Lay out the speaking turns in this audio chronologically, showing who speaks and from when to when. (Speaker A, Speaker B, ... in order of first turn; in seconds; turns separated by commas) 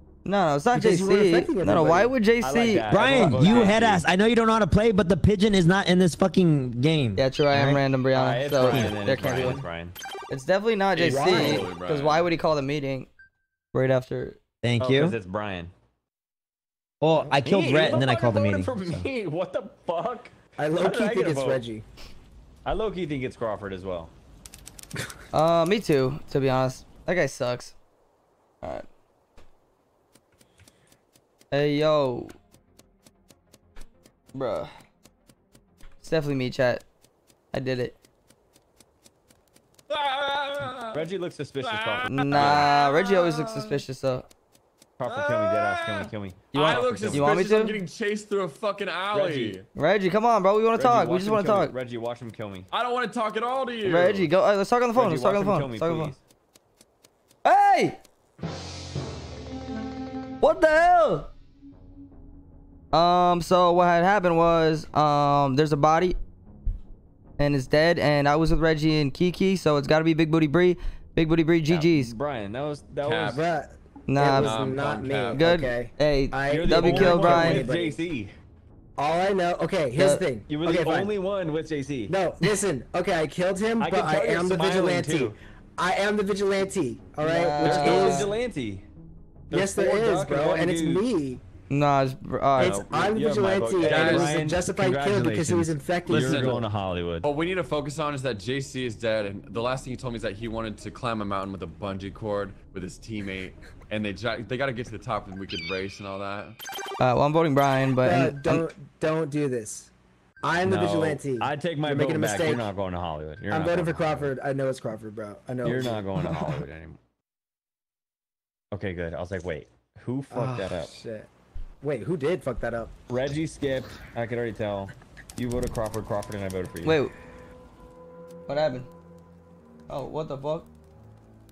Speaker A: 0.2-3.6, Speaker B: 0.7-2.2, Speaker C: 2.4-4.0, Speaker D: 2.9-7.8, Speaker A: 7.2-9.6, Speaker C: 8.1-9.9, Speaker D: 8.6-9.5, Speaker A: 10.3-13.1, Speaker E: 10.9-12.3, Speaker B: 11.1-11.7, Speaker C: 11.2-11.6, Speaker A: 13.7-14.4, Speaker D: 14.6-15.1, Speaker C: 14.8-15.7, Speaker D: 17.0-19.1, Speaker C: 17.4-21.6, Speaker B: 20.6-21.8, Speaker C: 22.6-24.1, Speaker A: 25.3-27.7, Speaker A: 31.5-32.3, Speaker A: 34.3-34.7, Speaker A: 36.0-36.8, Speaker A: 37.5-37.9, Speaker E: 39.9-41.1, Speaker C: 40.9-42.7, Speaker E: 41.6-43.8, Speaker A: 42.1-44.2, Speaker C: 45.0-47.4, Speaker E: 45.0-49.6, Speaker A: 47.1-47.8, Speaker C: 49.1-49.6, Speaker A: 49.7-51.7, Speaker C: 50.8-52.7, Speaker E: 52.7-54.3, Speaker A: 53.8-56.1, Speaker C: 54.9-56.2, Speaker A: 57.4-58.0, Speaker A: 60.4-61.3, Speaker A: 62.9-66.2, Speaker A: 67.4-72.1, Speaker C: 71.7-73.5, Speaker E: 73.0-73.4, Speaker B: 73.3-78.0, Speaker A: 74.1-74.7, Speaker E: 74.4-75.4, Speaker A: 75.3-77.6, Speaker C: 76.5-78.3, Speaker B: 79.0-81.2, Speaker A: 79.9-80.2, Speaker C: 80.5-82.1, Speaker B: 82.1-88.3, Speaker C: 83.8-85.3, Speaker A: 87.2-88.3, Speaker C: 87.6-88.8, Speaker C: 89.5-91.1, Speaker B: 89.5-91.4, Speaker A: 91.7-92.8, Speaker C: 92.5-97.3, Speaker B: 92.6-96.6, Speaker E: 93.8-94.4, Speaker E: 96.1-96.7, Speaker E: 97.2-106.6, Speaker A: 107.0-108.6, Speaker B: 108.0-109.9, Speaker B: 110.4-112.7, Speaker C: 110.6-114.3, Speaker B: 113.5-116.4, Speaker C: 115.6-117.0, Speaker C: 118.7-120.9, Speaker B: 120.3-121.3, Speaker B: 121.8-122.9, Speaker C: 123.1-127.0, Speaker A: 126.8-127.1, Speaker A: 128.5-128.9, Speaker A: 129.9-130.7